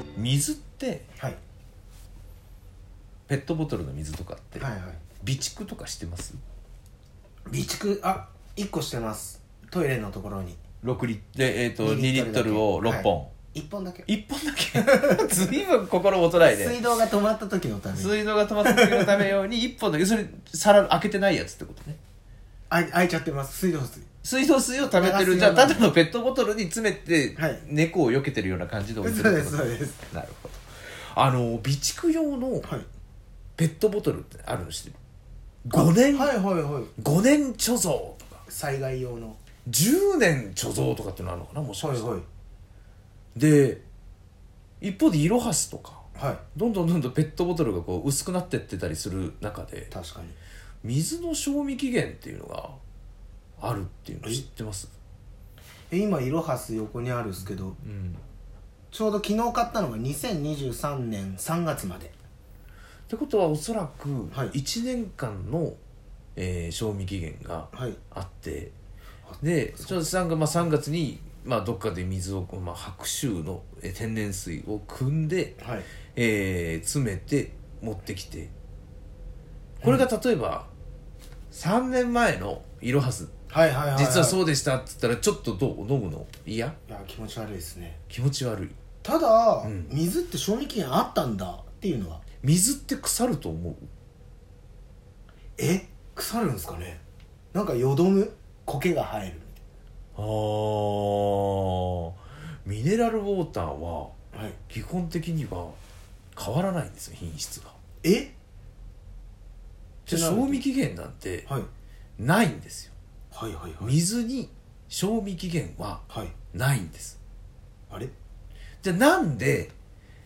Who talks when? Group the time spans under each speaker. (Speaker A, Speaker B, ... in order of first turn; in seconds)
Speaker A: 0.1-1.1, 3.3-6.4, 10.8-13.3, 14.1-16.8, 17.9-22.0, 24.2-30.6, 31.1-32.7, 33.6-35.0, 35.6-36.4, 37.0-38.4, 39.6-42.1, 43.3-43.8, 44.8-49.9, 50.8-52.8, 53.6-54.9, 57.4-58.2, 63.1-65.8, 66.3-68.7, 69.4-78.5, 79.8-80.7, 81.5-83.3, 83.9-86.8, 88.1-88.8, 89.6-89.9, 92.4-93.9, 100.2-105.8, 106.3-107.8, 110.0-111.5, 112.2-112.9, 113.8-117.2, 118.8-119.7
Speaker B: 4.5-5.0, 7.5-10.6, 11.8-14.1, 14.7-15.4, 16.4-19.2, 22.7-24.1, 24.8-25.9, 27.4-27.6, 29.0-30.0, 35.7-36.9, 38.5-39.4, 41.8-42.2, 46.1-46.4, 49.9-50.4, 55.9-57.8, 58.9-62.1, 64.3-64.5, 67.7-68.0, 69.3-70.0, 75.6-75.9, 83.5-84.4, 86.9-88.0, 89.0-92.2, 95.6-97.0, 97.5-99.6, 104.3-104.6, 108.0-108.3, 110.1-110.6, 113.3-114.0, 116.1-116.4